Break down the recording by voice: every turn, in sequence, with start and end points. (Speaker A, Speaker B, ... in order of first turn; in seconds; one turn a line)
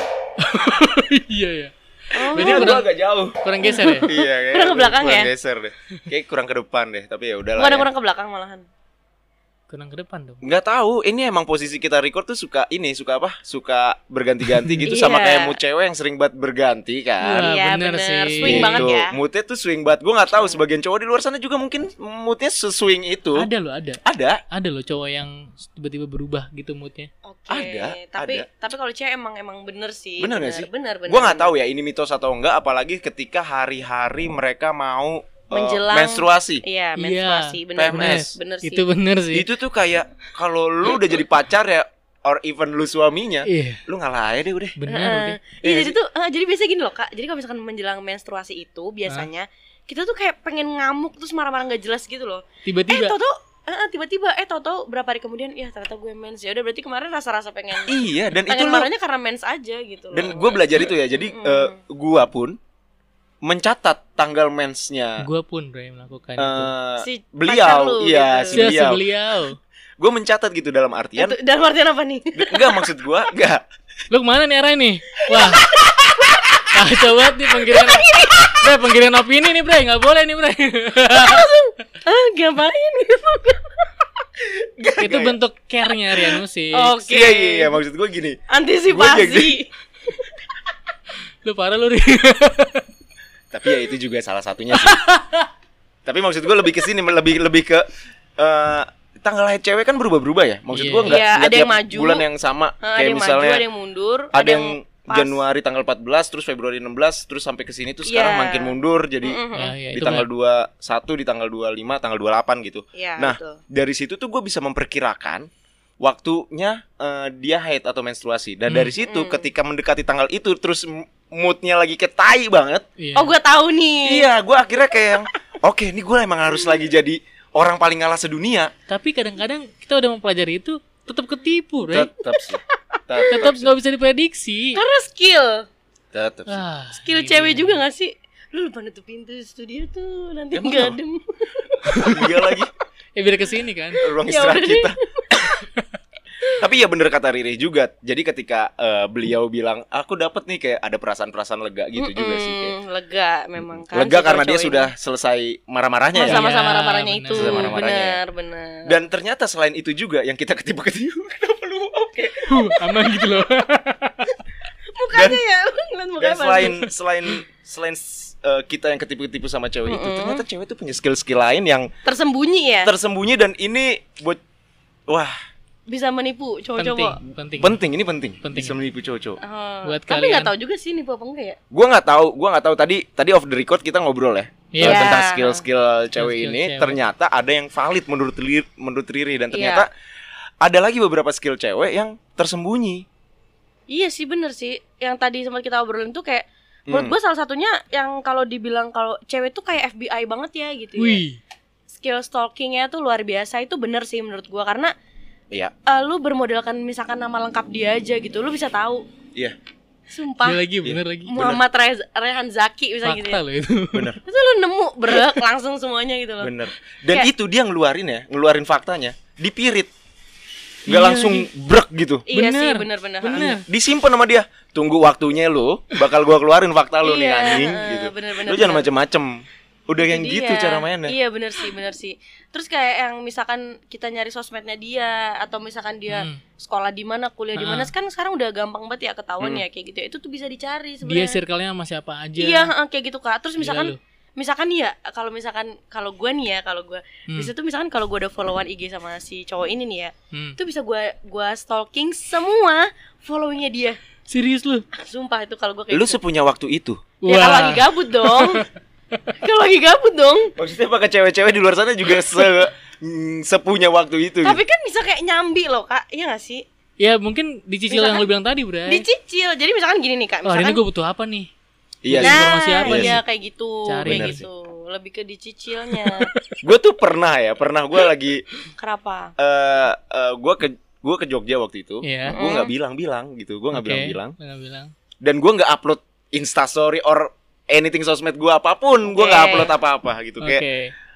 Speaker A: 0.4-2.9
Speaker B: 2.1-2.8
Speaker C: 2.3-3.4
Speaker A: 3.4-4.1
Speaker B: 3.6-5.3
Speaker C: 4.0-7.9
Speaker B: 7.5-8.7
Speaker A: 9.7-10.4
Speaker C: 10.4-17.5
Speaker A: 14.4-14.9
Speaker B: 14.8-15.6
Speaker A: 17.2-18.9
Speaker B: 17.4-19.1
Speaker C: 18.4-23.5
Speaker B: 20.3-20.6
Speaker A: 23.4-27.1
Speaker C: 24.0-24.4
Speaker B: 27.2-31.5
Speaker C: 27.5-28.4
Speaker C: 30.2-36.6
Speaker B: 35.5-38.9
Speaker A: 37.0-39.5
Speaker C: 37.8-38.3
Speaker C: 39.3-44.8
Speaker A: 43.5-43.8
Speaker A: 44.8-45.4
Speaker B: 44.9-61.8
Speaker C: 45.6-45.9
Speaker A: 52.6-53.2
Speaker C: 57.8-58.9
Speaker C: 60.1-62.6
Speaker C: 63.4-65.3
Speaker A: 65.2-66.7
Speaker C: 66.4-69.0
Speaker B: 67.0-68.7
Speaker A: 68.5-69.6
Speaker C: 70.0-71.3
Speaker B: 71.2-72.9
Speaker C: 72.3-73.6
Speaker A: 74.1-75.7
Speaker B: 75.5-76.3
Speaker A: 76.7-81.5
Speaker B: 77.7-78.6
Speaker B: 81.1-84.0
Speaker C: 84.4-85.4
Speaker A: 85.0-87.0
Speaker B: 86.7-87.8
Speaker C: 87.0-89.5
Speaker B: 88.5-90.2
Speaker A: 91.4-92.8
Speaker C: 93.5-95.0
Speaker A: 94.7-95.5
Speaker C: 96.0-97.8
Speaker C: 98.4-103.7
Speaker A: 100.7-101.2
Speaker B: 101.0-102.2
Speaker B: 102.8-105.4
Speaker C: 104.3-109.4
Speaker B: 108.0-109.7
Speaker A: 109.5-110.3
Speaker C: 109.9-115.5
Speaker B: 112.9-113.6
Speaker C: 116.0-122.8
Speaker A: 118.7-118.9
Speaker B: 119.0-119.5
Speaker A: 123.0-123.3
Speaker B: 123.1-124.3
Speaker C: 124.0-128.7
Speaker A: 128.9-132.1
Speaker C: 131.9-133.7
Speaker B: 132.9-133.5
Speaker A: 133.3-134.8
Speaker B: 134.7-135.6
Speaker C: 136.1-136.6
Speaker A: 136.5-137.8
Speaker B: 136.9-142.6
Speaker C: 140.5-141.0
Speaker C: 142.0-142.7
Speaker A: 143.2-144.0
Speaker C: 144.0-145.5
Speaker B: 144.2-145.5
Speaker C: 146.6-152.7
Speaker B: 152.0-154.9
Speaker C: 153.9-156.4
Speaker B: 156.1-159.0
Speaker A: 156.2-157.8
Speaker C: 157.3-158.2
Speaker C: 158.9-162.7
Speaker A: 162.5-164.4
Speaker B: 164.9-166.8
Speaker C: 165.1-165.4
Speaker C: 166.2-171.9
Speaker B: 169.8-170.4
Speaker B: 172.0-172.9
Speaker C: 172.8-174.4
Speaker C: 175.1-175.3
Speaker B: 175.9-177.2
Speaker A: 176.8-177.8
Speaker C: 177.6-179.4
Speaker A: 178.4-178.8
Speaker B: 179.4-181.6
Speaker A: 179.8-180.5
Speaker C: 181.7-189.9
Speaker A: 184.7-185.2
Speaker B: 184.8-185.6
Speaker A: 186.2-187.0
Speaker B: 189.5-189.8
Speaker C: 190.6-193.1
Speaker B: 193.9-201.2
Speaker C: 196.9-197.2
Speaker A: 201.0-201.4
Speaker B: 201.9-204.9
Speaker B: 205.8-209.0
Speaker B: 210.1-210.6
Speaker A: 210.4-211.4
Speaker C: 210.8-211.6
Speaker B: 211.2-213.4
Speaker A: 213.0-214.2
Speaker C: 213.9-214.2
Speaker B: 214.2-216.5
Speaker C: 216.4-219.9
Speaker A: 220.9-221.5
Speaker C: 220.9-222.3
Speaker B: 222.3-223.6
Speaker A: 222.3-223.7
Speaker C: 223.3-231.1
Speaker B: 227.0-228.9
Speaker B: 230.0-241.4
Speaker A: 236.1-236.4
Speaker A: 237.5-237.9
Speaker A: 241.0-242.7
Speaker B: 242.4-254.0
Speaker A: 243.6-244.0
Speaker A: 250.3-250.6
Speaker A: 254.3-254.8
Speaker B: 254.9-256.2
Speaker C: 255.9-257.0
Speaker A: 257.2-258.6
Speaker B: 257.2-258.6
Speaker B: 259.4-260.5
Speaker C: 260.6-264.6
Speaker B: 264.4-266.6
Speaker A: 267.0-269.1
Speaker B: 267.9-268.3
Speaker B: 268.9-270.8
Speaker A: 270.4-271.5
Speaker C: 272.0-273.2
Speaker A: 272.0-273.2
Speaker B: 272.2-276.3
Speaker A: 273.8-274.4
Speaker C: 274.1-274.5
Speaker A: 275.9-276.5
Speaker C: 276.6-278.4
Speaker B: 278.8-279.3
Speaker C: 279.4-284.4
Speaker A: 282.0-282.4
Speaker B: 282.3-282.7
Speaker A: 283.7-284.9
Speaker C: 285.2-290.6
Speaker B: 289.0-289.7
Speaker A: 290.4-290.9